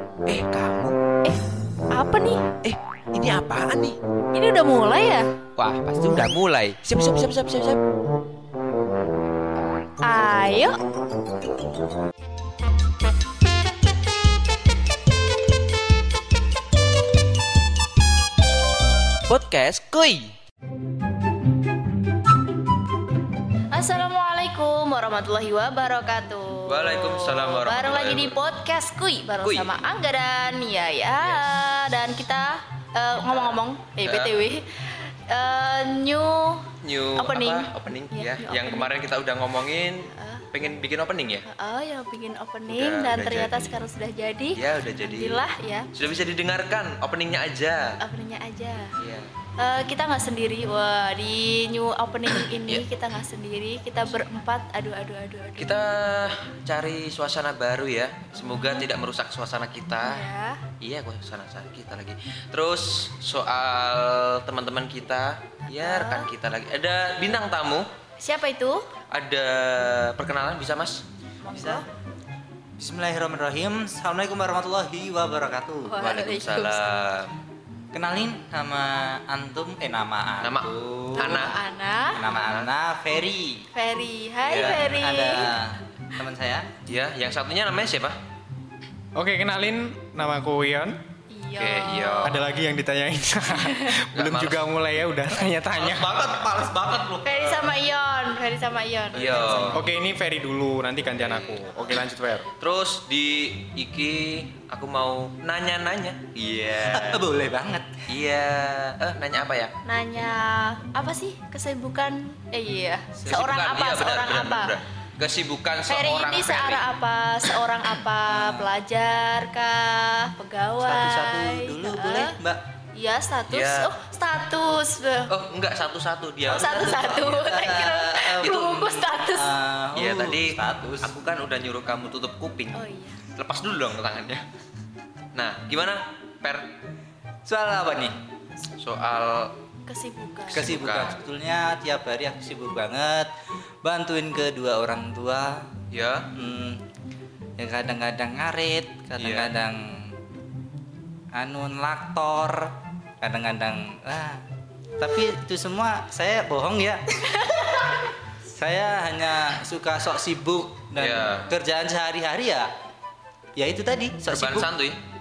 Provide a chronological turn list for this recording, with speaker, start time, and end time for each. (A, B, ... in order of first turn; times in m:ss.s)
0:00.3-0:01.0 A
0:01.9-0:02.5 B
0:02.6-0:04.0 A
0:04.3-0:05.3 B
0:05.6-0:07.8 A
0:10.0-0:10.8 B
0:19.3-0:20.3 A
0:23.7-0:38.9 B
0:26.7-0:28.4 A
0:29.4-0:29.8 A
0:31.2-0:31.6 A
0:33.2-0:34.3 A
0:36.8-0:41.4 A
0:40.1-0:40.5 B
0:41.5-0:45.9 B
0:42.7-0:43.8 A
0:44.6-0:48.0 A
0:48.0-0:49.0 B
0:49.0-0:49.3 A
0:49.6-0:55.8 B
0:55.6-1:00.3 A
0:58.3-0:58.9 B
1:00.0-1:00.6 B
1:00.8-1:07.9 A
1:05.7-1:06.3 B
1:08.2-1:08.9 B
1:09.1-1:11.0 A
1:11.4-1:11.8 B
1:11.5-1:11.8 C
1:12.8-1:15.9 C
1:15.8-1:16.9 B
1:16.0-1:17.4 A
1:17.9-1:21.4 C
1:20.4-1:21.5 A
1:21.1-1:22.3 B
1:22.2-1:23.6 C
1:22.3-1:22.7 A
1:23.7-1:25.5 B
1:24.4-1:25.0 A
1:24.5-1:26.7 C
1:26.9-1:28.2 A
1:29.2-1:31.0 D
1:31.3-1:32.4 B
1:31.6-1:32.5 A
1:32.2-1:36.1 D
1:33.6-1:33.9 B
1:34.1-1:34.7 A
1:35.7-1:37.8 A
1:37.2-1:39.8 B
1:39.1-1:39.9 A
1:39.7-1:42.5 D
1:41.2-1:41.7 A
1:42.6-1:47.2 A
1:46.8-1:47.9 C
1:48.1-1:49.7 A
1:49.8-1:54.7 B
1:53.3-1:56.8 A
1:55.9-2:02.4 B
1:58.3-1:58.7 C
2:00.8-2:02.6 C
2:02.9-2:05.3 B
2:03.5-2:04.0 A
2:05.3-2:07.6 A
2:06.4-2:09.5 B
2:06.5-2:11.1 C
2:08.4-2:08.8 A
2:09.9-2:14.4 A
2:12.7-2:13.2 B
2:15.3-2:16.7 A
2:17.4-2:18.2 C
2:18.8-2:19.6 A
2:19.9-2:20.7 B
2:20.5-2:21.2 A
2:20.5-2:23.3 C
2:23.8-2:25.7 C
2:25.9-2:26.3 A
2:26.4-2:26.8 C
2:27.6-2:30.2 C
2:29.2-2:29.5 A
2:31.3-2:34.4 C
2:35.0-2:37.5 C
2:38.5-2:42.7 C
2:41.0-2:41.5 A
2:43.6-2:44.7 C
2:44.2-2:45.0 A